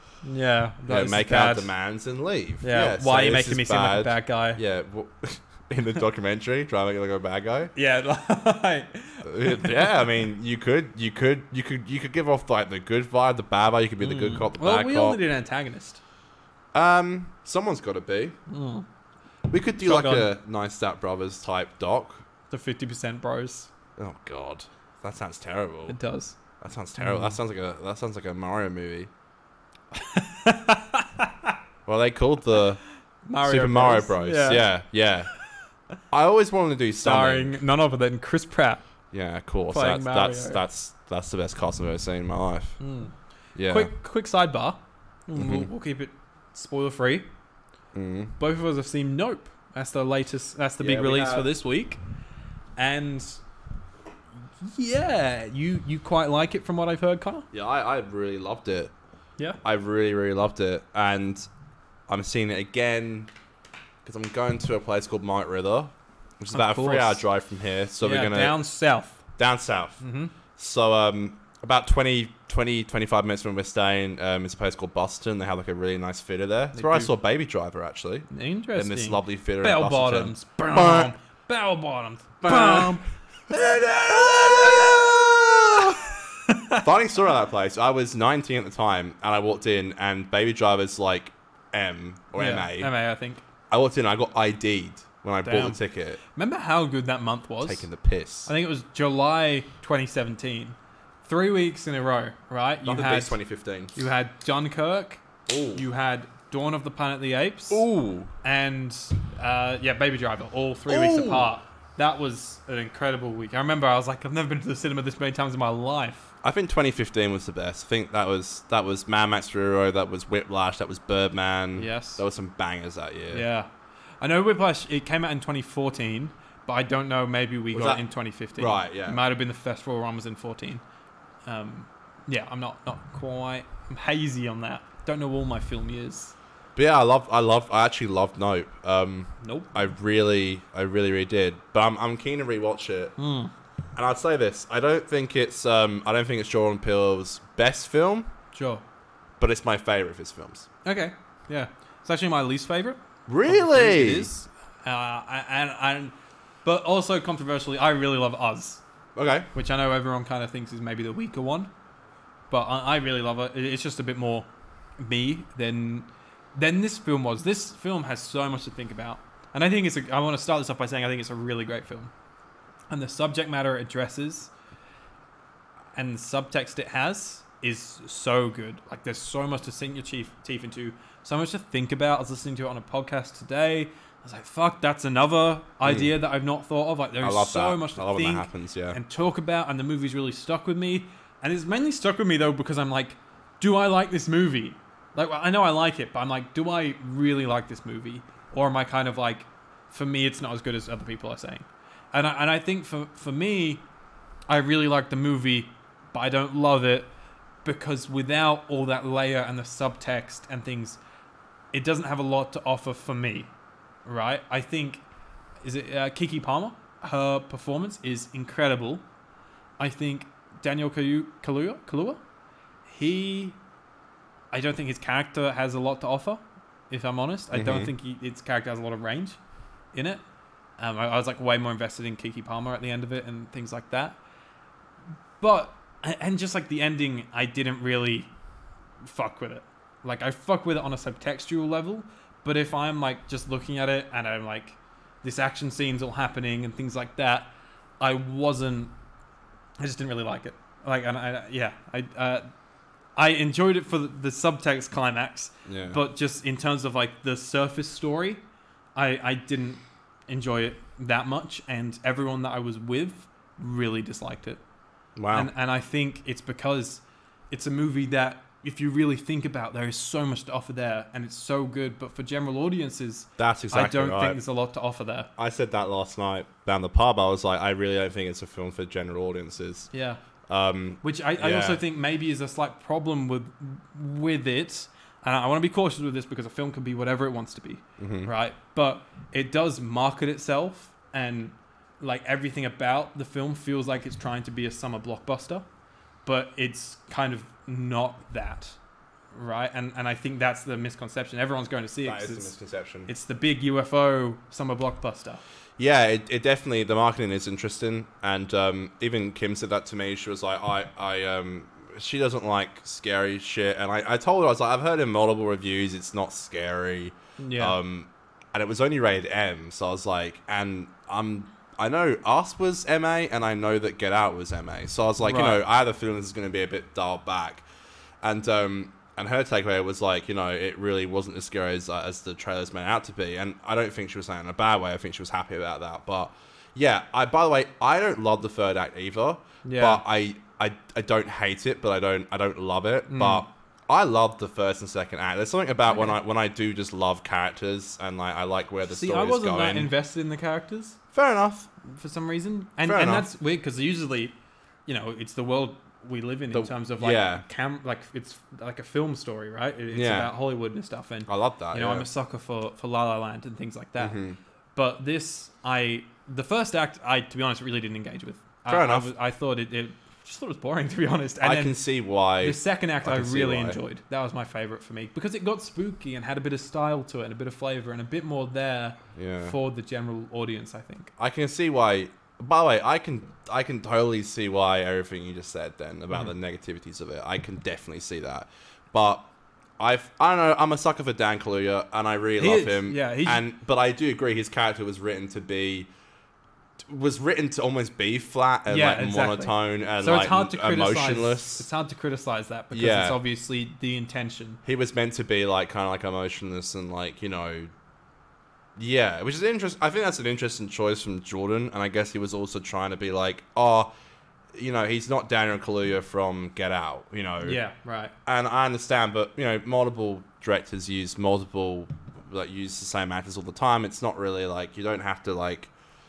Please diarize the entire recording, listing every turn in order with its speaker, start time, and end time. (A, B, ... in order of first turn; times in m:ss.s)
0:00.2-0:01.7 A
0:00.9-0:07.7 B
0:02.6-0:04.6 A
0:07.8-0:10.1 A
0:09.2-0:15.2 B
0:14.0-0:16.0 A
0:16.7-0:18.4 B
0:18.5-0:18.8 A
0:19.5-0:22.2 B
0:19.8-0:20.3 A
0:22.5-0:23.7 A
0:24.0-0:26.0 B
0:25.9-0:26.4 A
0:26.6-0:29.1 B
0:27.0-0:27.4 A
0:29.9-0:31.6 A
0:31.9-0:32.8 B
0:33.3-0:34.7 A
0:33.4-0:35.3 B
0:36.1-0:37.6 B
0:37.0-0:38.8 A
0:39.1-0:42.8 B
0:39.7-0:40.6 A
0:42.8-0:43.1 A
0:43.6-0:43.9 B
0:43.6-0:47.3 A
0:45.4-0:45.7 B
0:48.0-0:48.4 B
0:48.4-0:52.0 A
0:50.8-0:51.5 B
0:52.8-0:53.4 A
0:54.6-0:57.5 A
0:57.5-0:58.9 B
0:59.6-1:01.5 B
1:02.1-1:03.3 B
1:04.0-1:08.6 B
1:06.5-1:07.2 A
1:08.0-1:09.2 A
1:09.4-1:10.0 B
1:10.0-1:10.3 A
1:10.6-1:21.1 B
1:16.7-1:17.1 A
1:18.3-1:25.0 A
1:22.4-1:26.0 B
1:25.8-1:26.9 A
1:26.8-1:32.9 B
1:32.4-1:33.4 A
1:33.7-1:36.2 B
1:35.4-1:35.8 A
1:36.4-1:37.9 A
1:37.6-1:38.5 B
1:38.5-1:43.4 A
1:42.8-1:43.9 B
1:44.0-1:45.2 A
1:45.5-1:45.8 B
1:45.8-1:47.9 A
1:47.7-1:48.3 B
1:48.4-1:56.3 A
1:50.9-1:51.5 B
1:56.4-2:03.5 B
2:01.8-2:02.2 A
2:03.3-2:03.7 A
2:04.2-2:10.8 A
2:07.7-2:08.0 B
2:08.6-2:09.2 B
2:11.5-2:16.4 A
2:16.8-2:23.2 B
2:19.4-2:19.7 A
2:23.2-2:23.5 A
2:24.0-2:28.3 B
2:28.5-2:28.8 A
2:29.4-2:30.7 B
2:30.8-2:38.8 A
2:33.3-2:34.3 B
2:39.2-2:39.5 B
2:39.5-2:41.7 A
2:42.5-2:44.5 A
2:45.0-2:52.1 A
2:52.9-2:54.5 A
2:56.0-3:23.8 A
3:05.8-3:06.2 B
3:07.2-3:09.0 B
3:24.5-3:27.1 A
3:27.6-3:31.0 A
3:31.7-3:33.5 A
3:34.1-3:35.0 A
3:35.6-3:39.0 A
3:39.8-3:42.2 A
3:42.9-3:43.6 A
3:44.5-3:49.4 A
3:47.5-3:47.9 B
3:49.9-3:50.2 A
3:50.8-3:54.2 A
3:55.4-3:58.3 A
3:59.0-4:08.9 A
4:09.8-4:12.5 A
4:13.2-4:18.4 A
4:15.7-4:16.0 B
4:19.0-4:24.6 A
4:25.2-4:25.5 B
4:25.3-4:35.3 A
4:33.4-4:34.4 B
4:35.4-4:39.9 B
4:39.9-4:40.2 A
4:40.5-4:41.8 B
4:41.0-4:55.6 A
4:48.0-4:48.3 B
4:56.2-4:58.8 A
4:59.3-5:02.6 A
5:02.0-5:03.1 B
5:03.1-5:05.4 A
5:05.8-5:27.6 B
5:17.4-5:17.8 A
5:25.2-5:25.6 A
5:28.2-5:49.9 B
5:39.6-5:40.0 A
5:43.1-5:43.5 A
5:45.9-5:46.2 A
5:48.8-5:51.0 A
5:51.1-5:51.7 B
5:51.9-5:54.4 A
5:52.8-5:53.3 B
5:54.9-6:04.2 A
5:56.5-5:57.4 B
5:59.9-6:00.3 B
6:01.3-6:02.1 B
6:04.0-6:04.4 B
6:04.8-6:11.8 A
6:08.7-6:09.1 B
6:11.4-6:13.8 B
6:12.4-6:21.1 A
6:19.2-6:19.6 B
6:21.2-6:29.3 B
6:29.8-6:35.9 B
6:32.4-6:33.4 A
6:36.8-6:41.6 B
6:38.7-6:44.6 A
6:42.7-6:43.2 B
6:44.6-6:47.7 B
6:48.8-6:53.9 B
6:54.6-6:57.6 B
6:57.4-6:58.1 A
6:58.3-7:05.7 B